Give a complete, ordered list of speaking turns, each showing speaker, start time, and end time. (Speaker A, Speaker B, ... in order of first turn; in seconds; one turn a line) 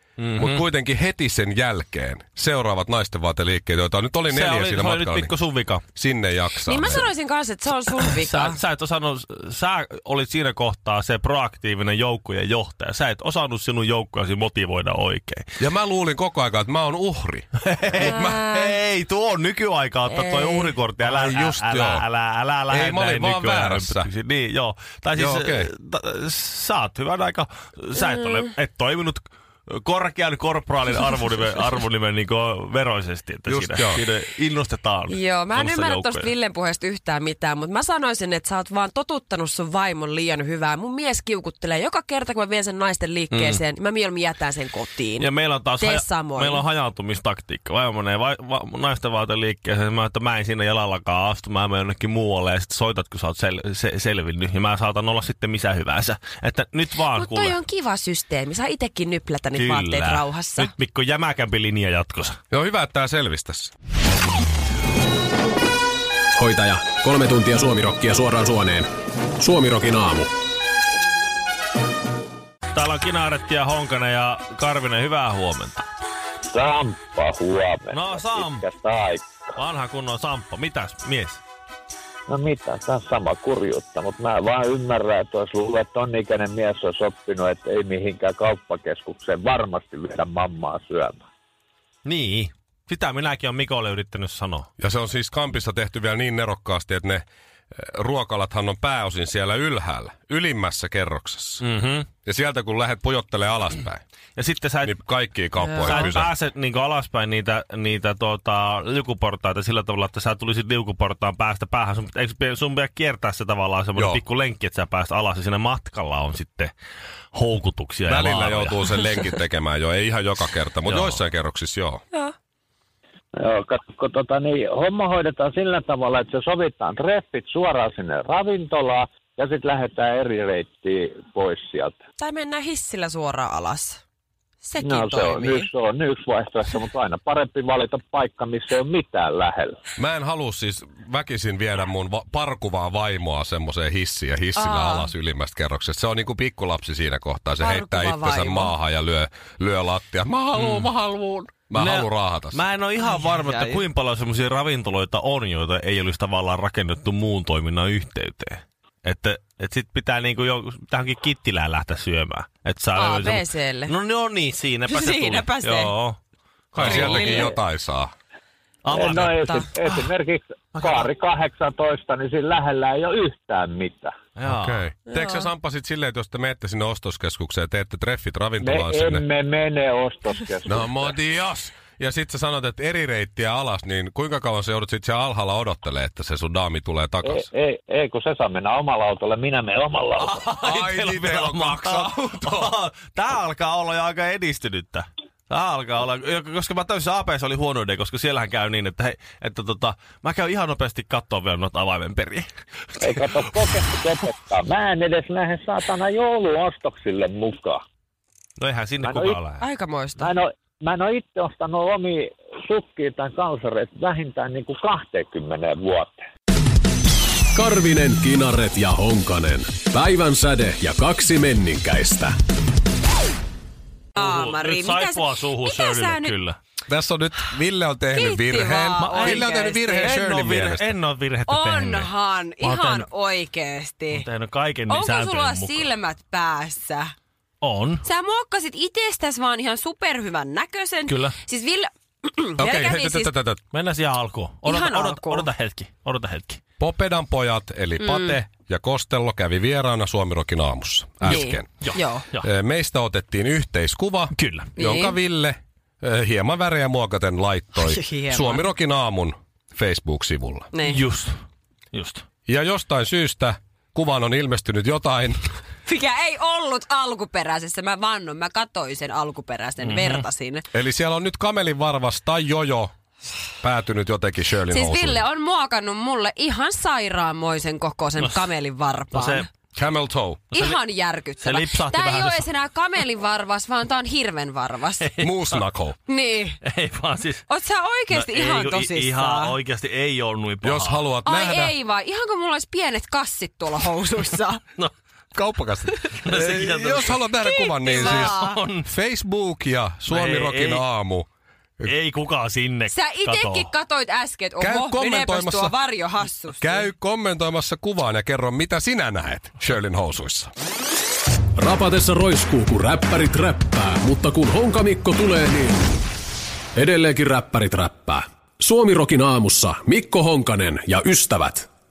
Speaker A: 0.2-0.6
Speaker B: 0.3-5.3
Speaker A: 4.3-5.8
Speaker B: 5.9-7.1
Speaker C: 6.6-8.6
Speaker A: 8.0-15.5
Speaker B: 15.6-18.6
Speaker A: 17.6-36.3
Speaker C: 18.0-18.7
Speaker C: 20.1-20.7
Speaker B: 21.0-22.1
Speaker B: 22.7-24.1
Speaker B: 25.2-25.7
Speaker C: 28.0-28.5
Speaker B: 33.5-34.0
Speaker C: 35.1-46.6
Speaker A: 43.3-43.6
Speaker A: 45.2-57.6
Speaker C: 57.1-60.7
Speaker A: 59.5-62.4
Speaker B: 62.5-63.7
Speaker D: 66.4-70.3
Speaker A: 72.7-75.9
Speaker E: 76.5-79.3
Speaker A: 77.9-78.7
Speaker A: 79.6-81.4
Speaker E: 82.3-91.2
Speaker A: 92.0-94.7
Speaker B: 94.8-101.6
Speaker A: 101.6-102.1
Speaker B: 102.2-104.0
Speaker A: 104.4-104.9
Speaker B: 104.8-106.3
Speaker C: 105.6-106.1
Speaker A: 105.8-116.7
Speaker B: 114.0-114.2
Speaker A: 117.3-119.1
Speaker B: 118.1-122.0
Speaker A: 120.9-121.1
Speaker E: 123.3-131.9
Speaker C: 132.2-134.0
Speaker C: 134.6-135.7
Speaker E: 134.8-139.8
Speaker B: 140.0-152.6
Speaker C: 144.5-145.1
Speaker C: 147.6-148.8
Speaker A: 150.5-150.9
Speaker A: 151.8-166.2
Speaker C: 153.1-153.8
Speaker C: 162.9-163.9
Speaker C: 164.9-165.9
Speaker A: 166.7-167.5
Speaker B: 166.8-168.1
Speaker C: 166.8-167.5
Speaker A: 168.8-170.1
Speaker E: 168.9-174.1
Speaker A: 170.8-171.1
Speaker A: 174.4-174.8
Speaker B: 174.5-179.2
Speaker C: 175.1-175.5
Speaker E: 178.6-180.9
Speaker B: 180.7-187.5
Speaker E: 187.2-190.4
Speaker A: 190.2-202.5
Speaker B: 190.6-192.8
Speaker E: 203.0-207.8
Speaker A: 208.6-209.6
Speaker E: 209.0-209.4
Speaker C: 209.6-210.3
Speaker E: 210.2-216.1
Speaker D: 217.5-222.3
Speaker C: 224.2-226.3
Speaker A: 224.2-226.6
Speaker B: 226.9-230.9
Speaker C: 228.1-230.1
Speaker A: 229.0-232.1
Speaker C: 231.5-234.2
Speaker A: 232.6-233.1
Speaker A: 234.1-235.9
Speaker C: 234.9-237.1
Speaker A: 237.6-238.0
Speaker C: 238.0-243.3
Speaker A: 241.1-241.3
Speaker B: 242.6-243.6
Speaker A: 243.7-246.6
Speaker C: 244.6-245.5
Speaker B: 246.8-251.8
Speaker C: 248.0-248.4
Speaker A: 251.2-252.5
Speaker C: 251.3-252.2
Speaker B: 252.4-260.7
Speaker A: 254.3-254.7
Speaker C: 254.8-255.2
Speaker C: 257.8-258.7
Speaker C: 260.7-261.0
Speaker A: 260.9-261.4
Speaker A: 261.9-262.2
Speaker B: 262.5-265.4
Speaker C: 265.9-270.6
Speaker A: 269.8-270.2
Speaker B: 270.7-272.9
Speaker B: 273.6-275.2
Speaker C: 274.7-279.5
Speaker A: 279.1-279.5
Speaker B: 279.8-280.5
Speaker C: 280.5-285.1
Speaker A: 281.4-282.5
Speaker A: 285.0-285.6
Speaker B: 285.2-286.0
Speaker C: 286.1-286.6
Speaker A: 286.6-287.4
Speaker C: 287.5-289.6
Speaker A: 288.1-291.0
Speaker B: 290.6-291.8
Speaker C: 291.2-294.6
Speaker B: 295.3-301.3
Speaker C: 295.9-296.2
Speaker A: 296.2-297.2
Speaker C: 297.4-298.6
Speaker A: 297.9-298.9
Speaker A: 300.1-300.9
Speaker A: 301.9-303.7
Speaker C: 302.9-306.9
Speaker B: 304.6-305.8
Speaker B: 306.6-310.5
Speaker D: 311.6-315.8
Speaker D: 316.8-321.7